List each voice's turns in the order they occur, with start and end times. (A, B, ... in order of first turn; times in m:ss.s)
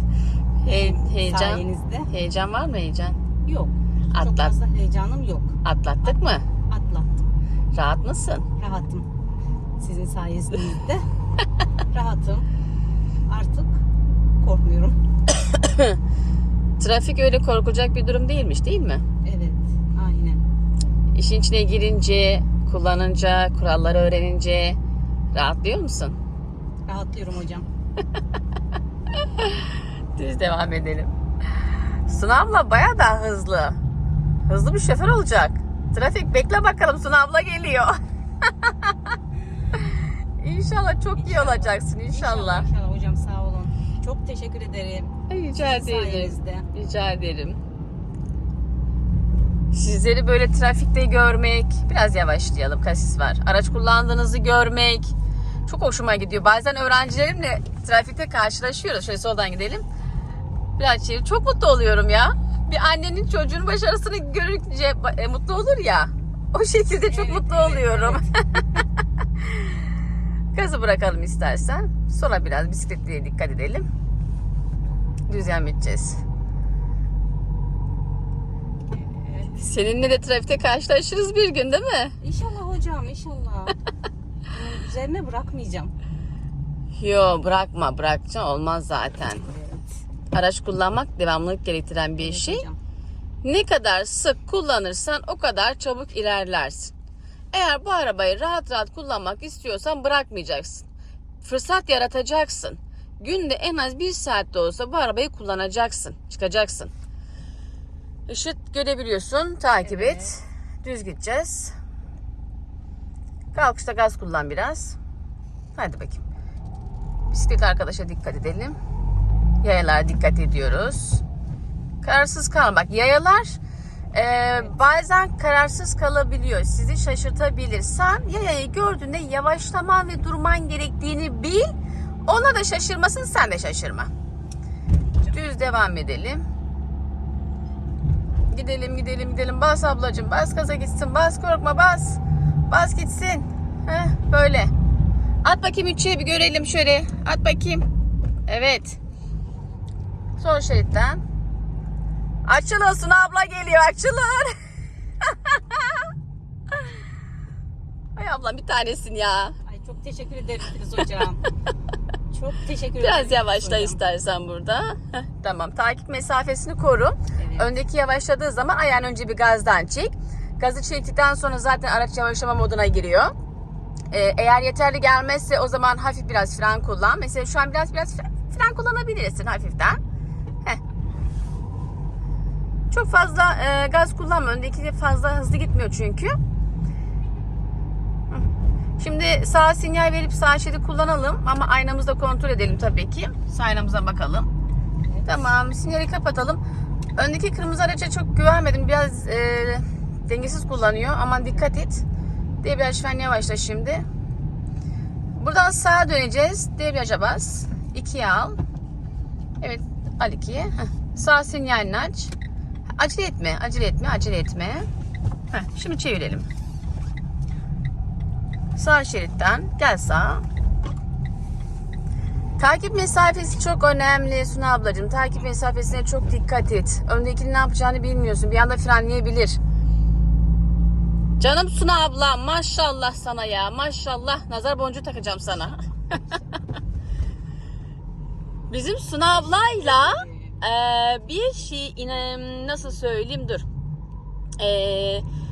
0:00.6-0:03.2 A
0:00.7-0:02.1 B
0:03.4-0:06.2 B
0:04.1-0:04.5 A
0:05.6-0:06.4 A
0:06.7-0:07.2 B
0:07.7-0:08.5 A
0:08.6-0:09.1 B
0:09.8-0:11.0 B
0:11.9-0:12.5 B
0:13.3-0:13.8 B
0:14.4-0:15.0 B
0:15.3-0:16.0 A
0:16.8-0:19.0 A
0:19.2-0:20.4 B
0:21.1-0:24.8 A
0:25.3-0:26.2 A
0:26.9-0:27.7 B
0:29.4-0:31.1 A
0:32.1-0:33.8 A
0:34.5-0:37.9 A
0:39.7-0:42.7 A
0:41.2-0:46.7 B
0:45.3-0:47.6 A
0:49.7-0:55.1 A
0:55.7-0:59.8 A
1:00.8-1:08.3 A
1:07.0-1:08.2 B
1:09.4-1:09.8 A
1:10.5-1:13.9 A
1:15.3-1:16.2 A
1:18.9-1:19.6 B
1:19.5-1:22.2 A
1:22.2-1:23.8 B
1:24.5-1:25.9 B
1:27.0-1:29.4 A
1:29.4-1:30.0 B
1:30.3-1:32.6 A
1:32.2-1:32.8 B
1:33.4-1:36.9 A
1:37.5-1:40.8 A
1:41.4-1:46.9 A
1:48.3-1:51.7 A
1:49.8-1:50.3 B
1:53.5-1:55.0 A
1:55.8-1:56.2 A
1:57.3-1:58.8 A
1:59.6-2:01.2 A
2:02.0-2:03.6 A
2:04.1-2:11.6 A
2:12.2-2:14.1 A
2:15.2-2:16.4 A
2:18.5-2:24.7 A
2:25.4-2:27.8 A
2:28.5-2:29.0 A
2:30.4-2:31.2 A
2:32.4-2:34.5 A
2:35.3-2:36.0 A
2:38.2-2:39.6 A
2:39.6-2:41.4 B
2:42.3-2:44.0 B
2:43.0-2:53.3 A
2:47.4-2:47.7 B
2:54.1-3:00.0 A
3:02.9-3:06.3 A
3:09.0-3:14.5 A
3:15.1-3:15.5 B
3:15.2-3:16.6 A
3:17.2-3:22.0 A
3:22.6-3:24.0 A
3:25.4-3:28.6 A
3:29.6-3:32.3 A
3:33.0-3:34.8 A
3:35.5-3:36.5 A
3:38.8-3:40.4 A
3:42.6-3:49.6 A
3:51.4-3:55.8 A
3:58.7-4:03.6 A
3:59.3-4:00.6 B
4:04.6-4:05.2 A